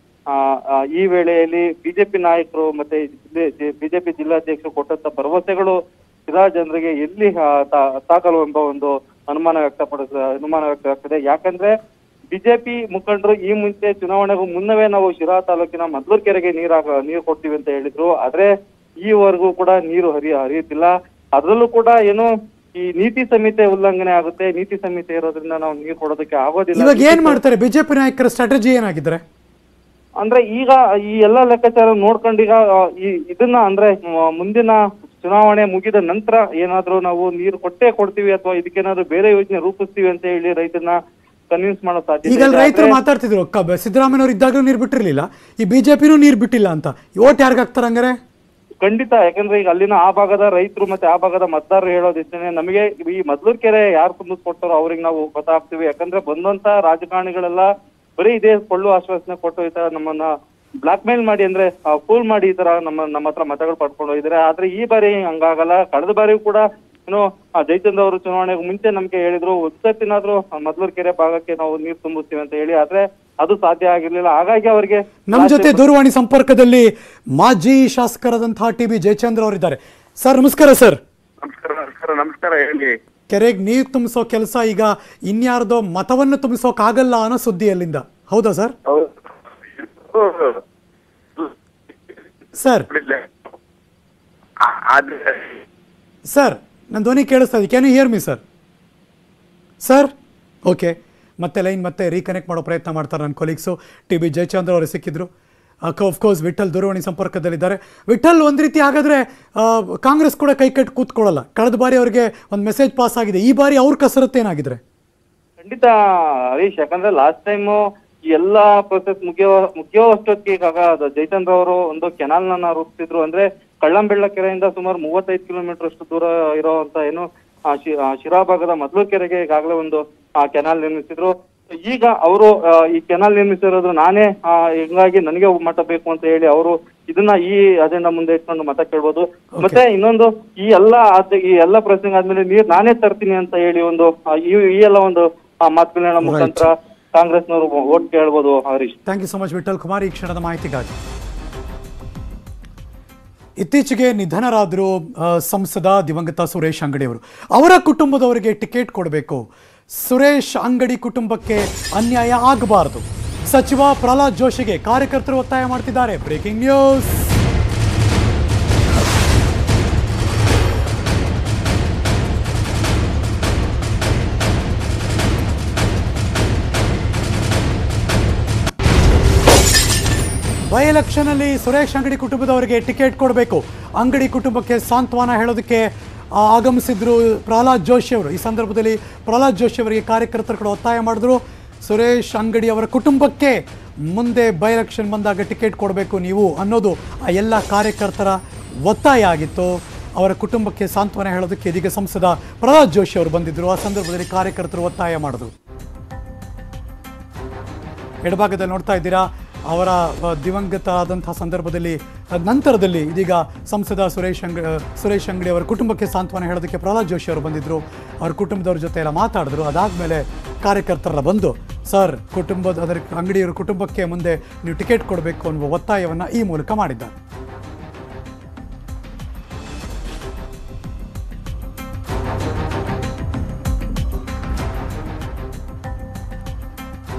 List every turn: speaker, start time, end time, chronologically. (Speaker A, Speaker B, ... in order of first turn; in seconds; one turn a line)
Speaker A: 0.3-11.7
Speaker A: 12.3-18.5
Speaker A: 19.1-27.4
Speaker B: 26.8-29.2
Speaker A: 30.2-41.0
Speaker A: 41.5-43.0
Speaker B: 42.3-48.2
Speaker A: 48.8-75.8
Speaker B: 75.3-81.0
Speaker C: 81.4-83.0
Speaker B: 83.3-88.8
Speaker C: 88.9-89.1
Speaker C: 90.0-90.6
Speaker B: 92.6-92.9
Speaker C: 92.9-93.3
Speaker C: 94.6-95.6
Speaker B: 96.3-98.4
Speaker B: 99.8-100.1
Speaker B: 100.7-105.3
Speaker B: 105.9-114.8
Speaker A: 115.6-117.8
Speaker A: 118.3-149.0
Speaker B: 146.2-146.7
Speaker B: 149.1-151.0
Speaker B: 153.6-159.4
Speaker B: 160.0-167.3
Speaker B: 180.7-205.5
Speaker B: 208.2-227.1